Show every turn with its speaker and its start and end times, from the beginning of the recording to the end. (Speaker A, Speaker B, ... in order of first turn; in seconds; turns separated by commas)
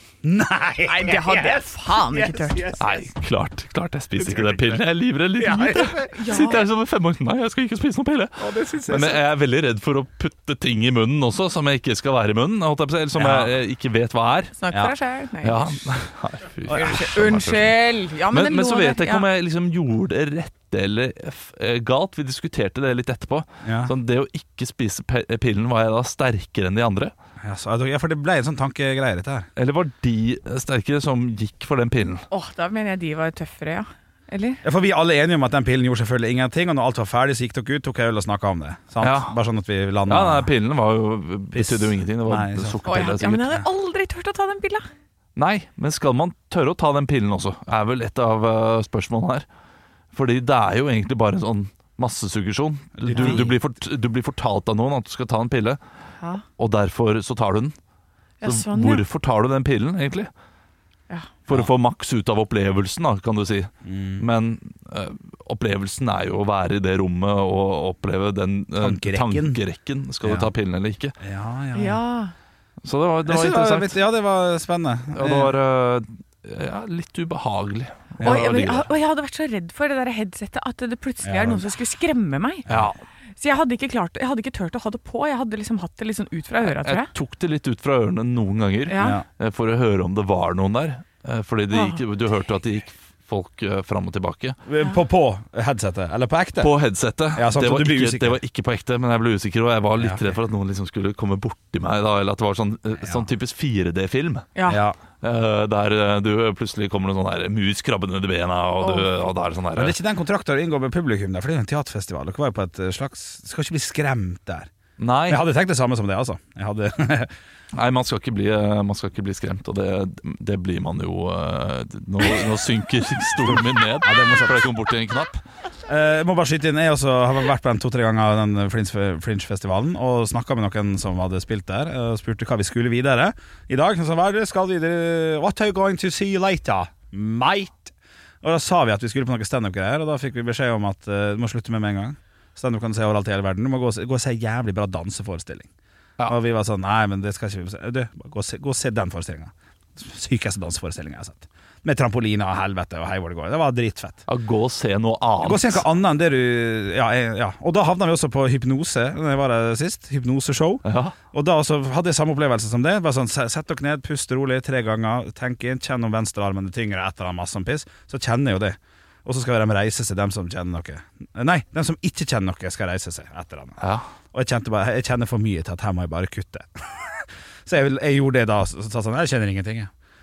Speaker A: 0.2-3.0, Speaker B: 0.9-2.8, Speaker C: 2.8-14.6, Speaker A: 4.2-4.8, Speaker A: 5.4-6.3, Speaker B: 6.1-6.6, Speaker A: 8.4-9.2, Speaker A: 13.2-13.5, Speaker B: 14.6-15.9, Speaker C: 15.4-27.1, Speaker A: 16.7-17.0, Speaker B: 16.7-19.2, Speaker A: 23.6-23.9, Speaker A: 27.4-29.5, Speaker C: 29.6-32.3, Speaker B: 32.3-34.6, Speaker A: 34.6-40.5, Speaker C: 39.0-39.4, Speaker C: 40.1-43.6, Speaker A: 41.5-43.6, Speaker B: 42.9-44.9, Speaker C: 45.4-49.5, Speaker C: 50.1-55.8, Speaker A: 53.0-53.6, Speaker B: 53.1-53.4, Speaker C: 56.6-57.8, Speaker B: 58.4-59.0, Speaker C: 58.4-60.3, Speaker C: 61.5-71.2, Speaker A: 63.9-64.2, Speaker A: 68.8-69.6, Speaker A: 70.2-70.5, Speaker A: 71.2-72.0, Speaker B: 71.8-72.3, Speaker C: 72.8-74.0, Speaker A: 73.3-75.5, Speaker C: 75.2-78.9, Speaker A: 78.2-78.5, Speaker B: 78.2-82.7, Speaker A: 81.2-81.7, Speaker C: 82.7-83.0, Speaker B: 83.4-87.1, Speaker C: 86.6-94.6, Speaker B: 88.9-89.2, Speaker A: 89.0-89.2, Speaker B: 91.7-92.0, Speaker A: 94.7-96.7, Speaker C: 96.6-104.5, Speaker A: 97.3-98.4, Speaker A: 100.0-100.2, Speaker A: 104.7-105.0, Speaker C: 105.2-110.0, Speaker B: 108.8-109.2, Speaker A: 109.8-114.7, Speaker C: 115.0-115.5, Speaker A: 115.3-117.3, Speaker C: 117.8-125.4, Speaker A: 123.5-124.7, Speaker A: 125.8-145.7, Speaker A: 146.3-154.2, Speaker C: 154.3-155.8, Speaker A: 155.4-173.8, Speaker C: 160.9-161.2, Speaker C: 173.8-174.1, Speaker A: 174.3-179.9